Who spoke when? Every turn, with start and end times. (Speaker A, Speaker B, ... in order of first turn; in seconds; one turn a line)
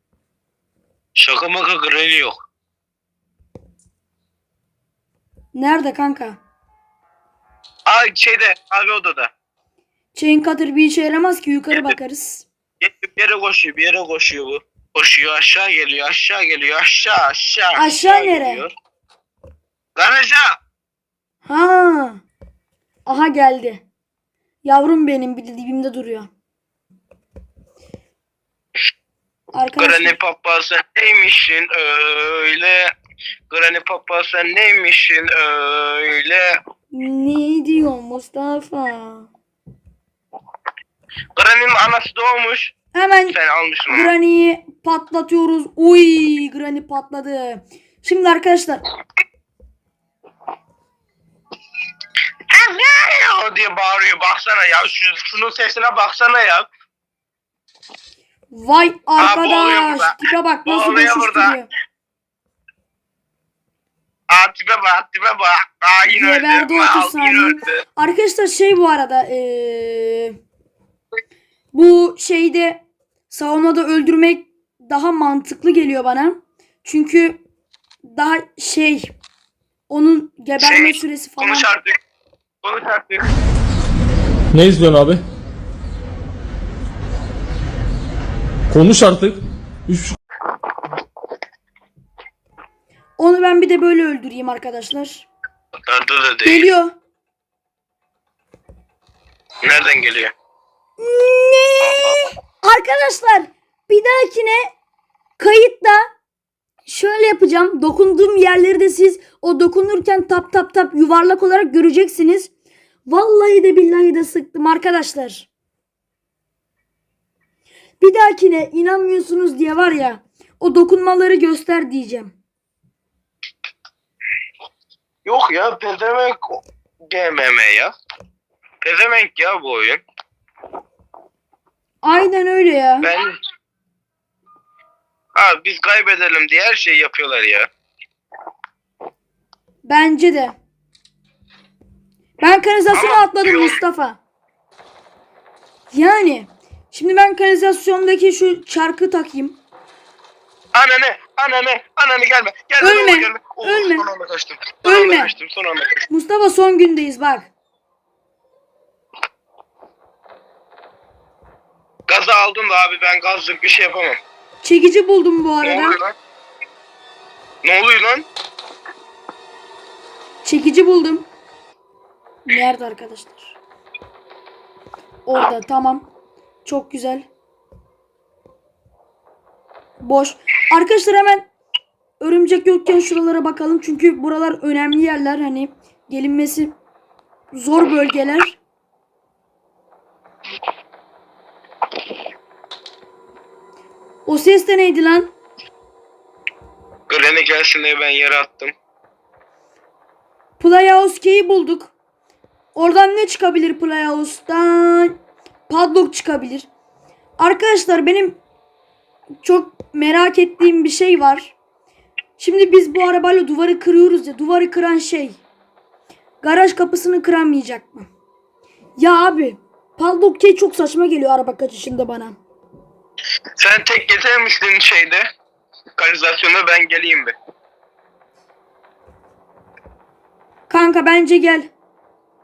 Speaker A: 1.1-2.4
Speaker B: 5.5-6.4
Speaker A: 7.8-9.3
Speaker B: 10.1-12.4
Speaker A: 11.7-12.0
Speaker A: 12.8-18.7
Speaker B: 17.8-18.6
Speaker A: 19.9-20.6
Speaker B: 21.4-22.2
Speaker B: 23.1-23.8
Speaker B: 24.6-26.3
Speaker B: 29.5-30.2
Speaker A: 29.8-32.9
Speaker A: 33.5-36.6
Speaker B: 36.9-39.3
Speaker A: 41.3-42.7
Speaker B: 42.9-43.4
Speaker A: 43.3-44.1
Speaker B: 43.9-48.8
Speaker A: 52.5-56.7
Speaker B: 58.5-61.7
Speaker A: 59.2-61.6
Speaker A: 64.3-67.8
Speaker B: 66.0-70.3
Speaker B: 71.7-77.4
Speaker B: 78.0-79.1
Speaker B: 79.9-81.7
Speaker A: 80.6-82.0
Speaker A: 82.6-83.2
Speaker C: 84.5-85.2
Speaker C: 88.7-90.2
Speaker B: 93.2-95.2
Speaker A: 95.8-96.7
Speaker B: 96.4-96.9
Speaker A: 99.6-100.3
Speaker B: 101.0-104.7
Speaker A: 101.8-102.2
Speaker B: 105.4-106.0
Speaker B: 106.8-112.5
Speaker B: 113.0-115.5
Speaker B: 118.0-122.3
Speaker A: 125.2-127.9
Speaker A: 128.8-130.0
Speaker B: 132.0-133.1
Speaker A: 133.0-133.3
Speaker A: 135.3-137.7
Speaker B: 139.8-140.6
Speaker B: 142.4-144.2
Speaker A: 142.9-143.8
Speaker B: 145.9-149.6
Speaker A: 150.7-156.0
Speaker B: 152.8-154.0
Speaker B: 154.8-155.3
Speaker B: 156.1-157.5
Speaker A: 162.1-164.2
Speaker B: 164.6-166.0
Speaker A: 165.6-166.2
Speaker A: 167.6-168.3
Speaker B: 170.4-171.3
Speaker B: 172.5-173.6
Speaker B: 175.2-176.1
Speaker B: 176.6-177.3
Speaker B: 180.0-181.5
Speaker B: 182.2-186.8
Speaker B: 187.5-188.6
Speaker B: 194.2-195.3
Speaker A: 197.1-198.7
Speaker B: 200.6-201.9
Speaker B: 202.7-205.2
Speaker B: 205.7-206.7
Speaker B: 207.4-208.4
Speaker B: 209.4-211.5
Speaker B: 212.4-215.4
Speaker B: 216.4-218.1
Speaker B: 219.0-222.4
Speaker A: 223.6-225.3
Speaker A: 225.9-227.3
Speaker B: 230.7-231.7